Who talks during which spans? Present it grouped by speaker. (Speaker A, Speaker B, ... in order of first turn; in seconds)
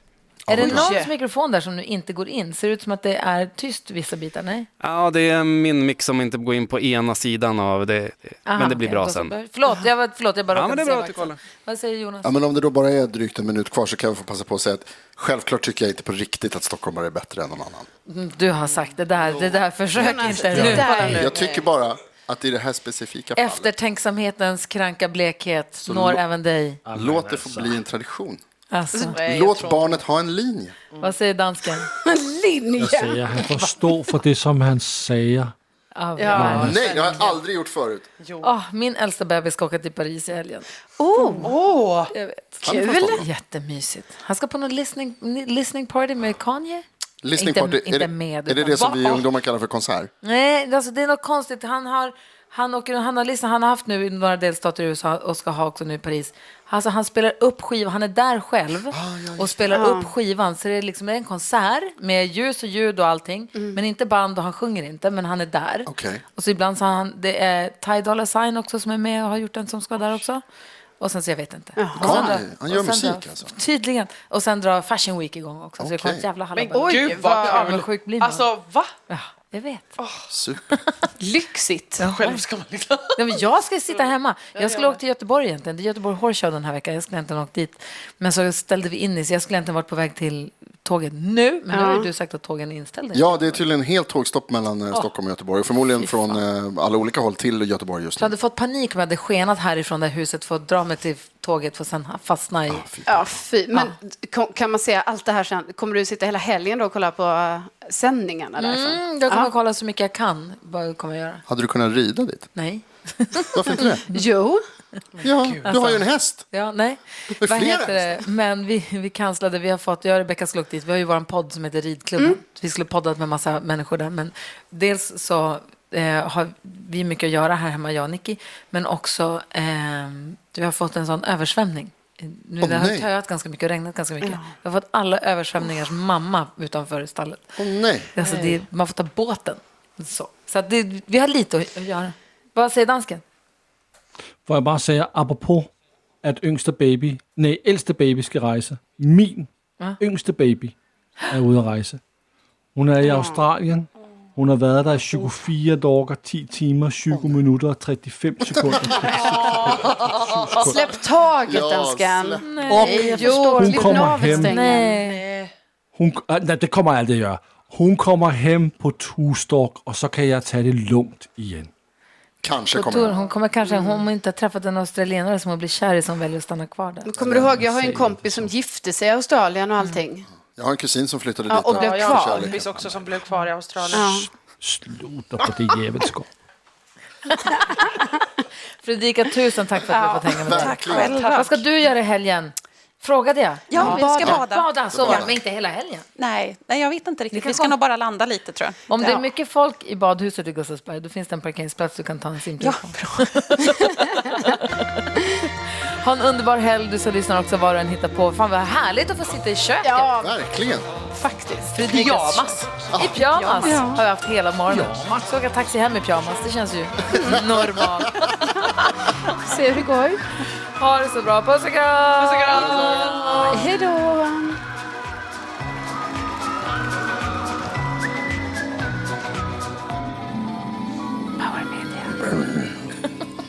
Speaker A: 0.5-0.9, 12.2-17.9, 20.6-23.7, 25.8-26.2, 26.9-28.4, 29.1-30.8, 36.6-38.0, 42.6-43.3, 47.2-50.1, 58.9-59.8, 65.9-66.2, 72.0-73.5, 75.8-76.2, 80.3-80.8, 93.1-98.3, 102.7-103.4, 111.5-112.5, 113.5-114.0, 115.2-116.5, 117.4-118.2, 132.6-133.1, 137.6-138.1, 157.1-157.4, 158.5-159.1, 159.7-160.1, 161.5-162.5, 172.4-173.2, 177.2-177.4, 180.5-183.0, 190.3-191.1, 193.8-195.3, 210.2-210.9, 212.9-213.2
Speaker B: 0.5-4.7, 8.5-12.3, 18.1-21.2, 23.4-26.8, 28.7-29.1, 31.0-31.9, 36.0-37.0, 38.4-41.5, 42.1-46.9, 47.4-48.9, 50.2-70.4, 71.0-78.5, 79.1-79.9, 82.0-82.4, 83.2-93.6, 96.0-96.4, 98.2-102.8, 108.6-111.4, 112.5-114.3, 115.6-137.5, 138.1-143.2, 162.4-165.2, 172.7-177.1, 187.4-187.8, 188.8-196.1, 197.3-197.7, 198.9-204.9, 205.8-210.1, 211.7-218.2, 220.8-224.0
Speaker C: 0.6-1.1, 19.9-21.3, 31.9-33.6, 36.2-36.6, 41.0-41.5, 42.6-43.2, 59.7-60.1, 71.8-72.3, 81.2-82.0, 91.7-92.1, 103.1-109.5, 114.0-114.6, 153.0-153.5, 160.5-165.0, 173.6-174.1, 177.0-180.3, 181.5-182.5, 183.9-184.3, 189.9-191.1, 209.8-210.3, 211.1-211.8, 213.6-214.0, 219.4-220.2, 223.3-224.6
Speaker D: 4.8-9.3, 10.5-11.4
Speaker E: 20.5-21.0, 26.9-27.8, 32.8-35.5, 36.3-36.8, 144.4-145.7, 146.2-150.8, 151.3-152.0, 152.8-160.8, 162.6-164.6, 165.9-171.7, 177.3-178.5, 184.1-186.3, 214.7-215.0
Speaker F: 28.9-30.0, 36.7-37.2, 38.2-38.5, 41.4-42.1, 48.8-49.3, 76.5-78.9, 80.0-80.2, 82.0-85.0, 115.2-115.9, 159.2-160.2, 165.0-165.5, 181.7-184.2, 211.8-213.8, 222.2-223.5
Speaker G: 190.5-191.6, 193.7-195.3, 196.2-198.8, 202.6-203.4